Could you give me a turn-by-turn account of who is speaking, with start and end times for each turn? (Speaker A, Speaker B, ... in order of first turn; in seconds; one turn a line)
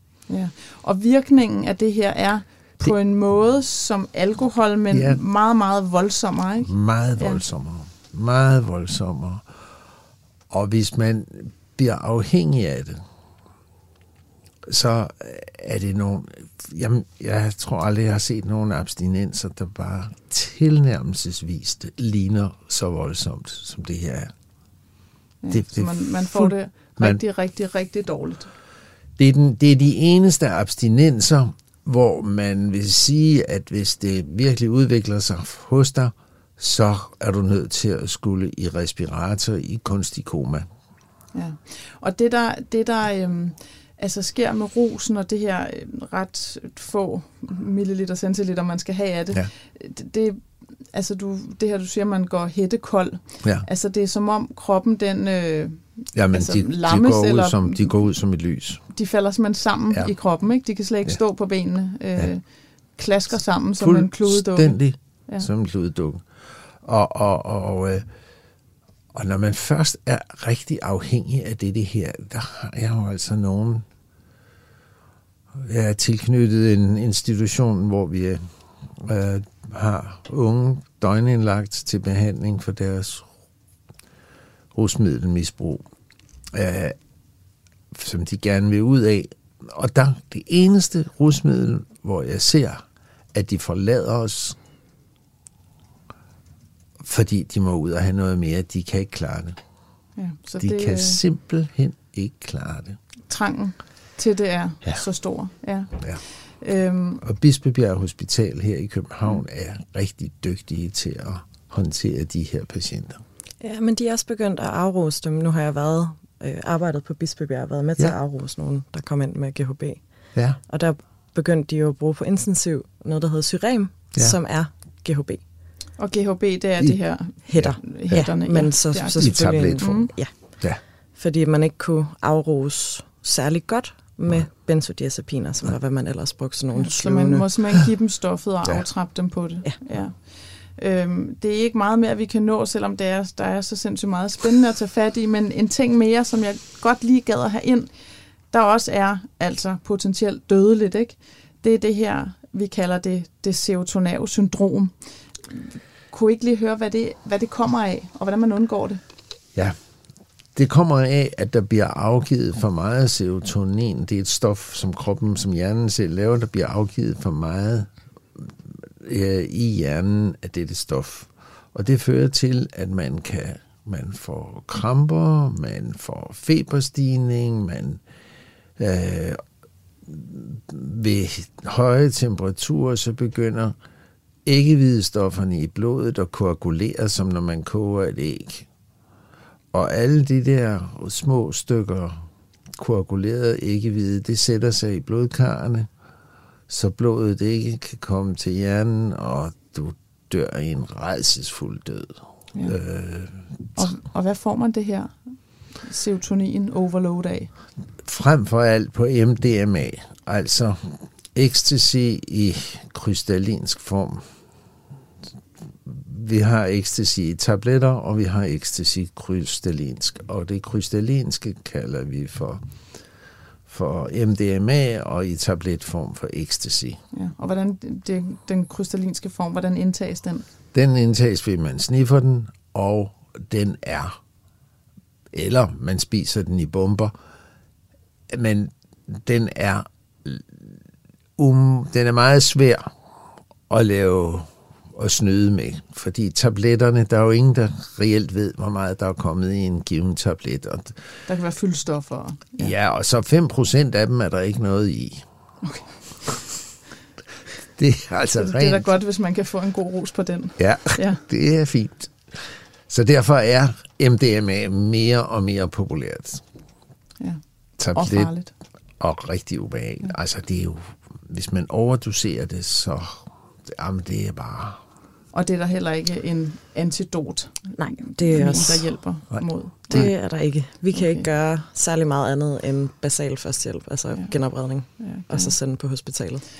Speaker A: 0.3-7.4
Speaker B: 4.9-5.2
Speaker B: 6.7-9.5
Speaker B: 10.5-13.0
Speaker B: 14.7-24.3
Speaker A: 25.4-28.5
Speaker B: 25.5-27.2
Speaker B: 29.2-40.7
Speaker A: 41.3-57.9
Speaker B: 56.1-58.8
Speaker A: 58.9-62.4
Speaker A: 62.9-65.5
Speaker B: 63.8-66.2
Speaker B: 66.8-68.1
Speaker B: 69.1-73.8
Speaker B: 75.6-78.4
Speaker B: 79.0-83.3
Speaker B: 84.7-85.8
Speaker B: 86.5-87.0
Speaker B: 87.9-94.6
Speaker B: 97.0-99.6
Speaker A: 100.2-101.2
Speaker B: 100.6-103.0
Speaker A: 103.3-105.9
Speaker A: 106.5-107.2
Speaker B: 107.2-113.2
Speaker C: 113.6-120.0
Speaker C: 120.7-125.4
Speaker A: 126.0-130.1
Speaker C: 127.5-130.6
Speaker B: 127.5-127.8
Speaker B: 129.2-130.8
Speaker C: 131.2-137.3
Speaker A: 136.7-147.9
Speaker A: 148.5-154.9
Speaker A: 155.5-159.0
Speaker B: 160.5-178.0
Speaker B: 178.8-179.4
Speaker B: 180.1-183.8
Speaker B: 184.4-188.7
Speaker B: 189.7-195.9
Speaker B: 196.7-203.5
Speaker A: 203.8-207.5
Speaker B: 208.0-214.2
Speaker B: 215.8-222.6
Speaker B: 223.7-227.0
Speaker A: 227.1-230.4
Speaker B: 230.7-234.2
Speaker B: 235.3-237.1
Speaker B: 238.3-240.7
Speaker B: 241.4-242.9
Speaker B: 243.7-251.1
Speaker A: 251.3-252.7
Speaker B: 252.6-255.2
Speaker A: 255.6-255.9
Speaker B: 257.8-258.9
Speaker A: 258.3-261.2
Speaker B: 260.6-266.4
Speaker B: 267.8-268.3
Speaker A: 267.9-268.5
Speaker B: 269.0-274.8
Speaker A: 275.3-280.1
Speaker C: 277.8-278.9
Speaker B: 279.3-280.1
Speaker C: 279.9-286.4
Speaker A: 280.9-281.2
Speaker A: 285.0-285.6